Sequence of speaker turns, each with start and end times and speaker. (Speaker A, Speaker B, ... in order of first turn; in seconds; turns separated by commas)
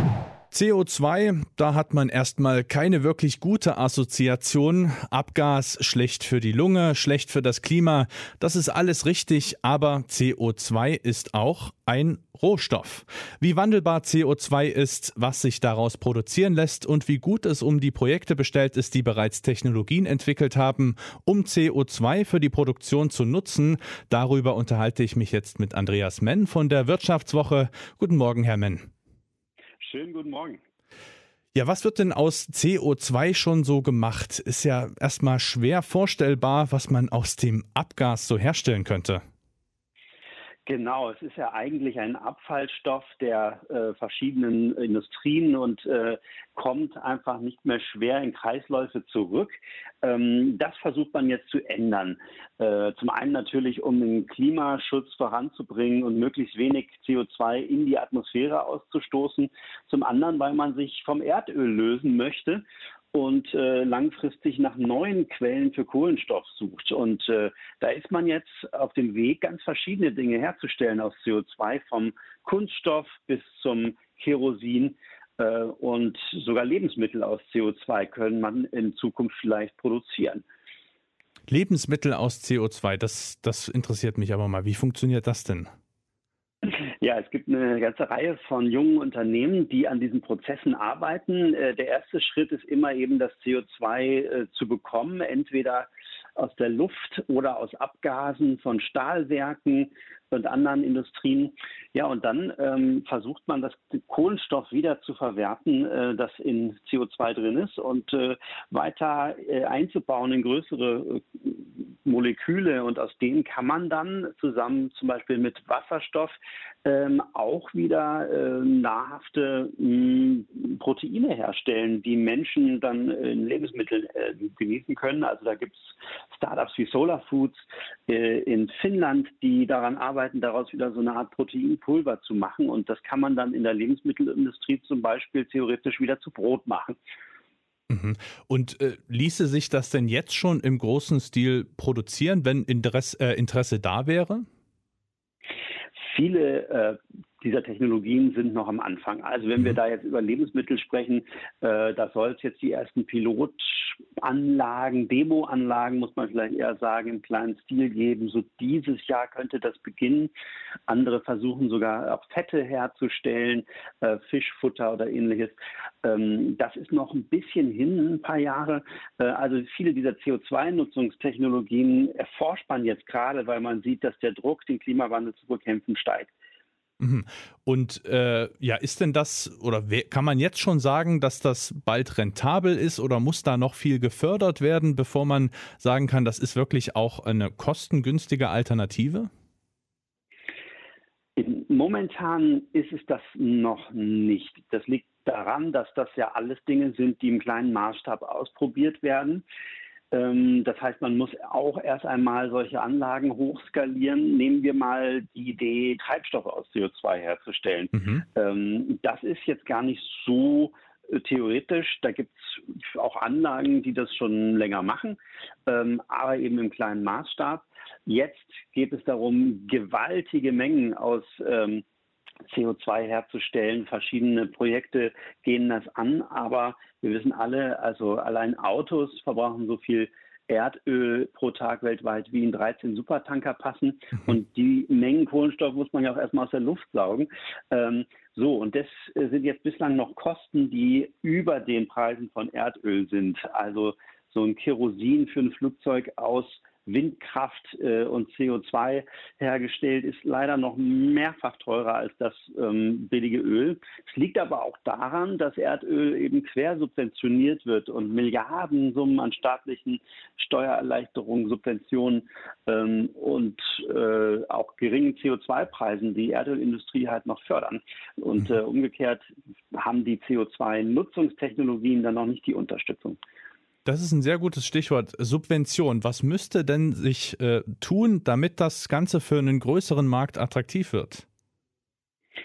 Speaker A: 0.5-28.9, Speaker B: 29.8-30.6, Speaker A: 31.5-39.2, Speaker B: 40.7-80.4, Speaker A: 81.5-85.7, Speaker B: 86.6-137.0, Speaker A: 137.9-144.5, Speaker B: 146.1-160.3, Speaker B: 160.9-176.3, Speaker A: 177.0-189.3, Speaker B: 191.4-199.4, Speaker B: 200.1-221.8, Speaker B: 222.5-273.2, Speaker A: 273.9-281.2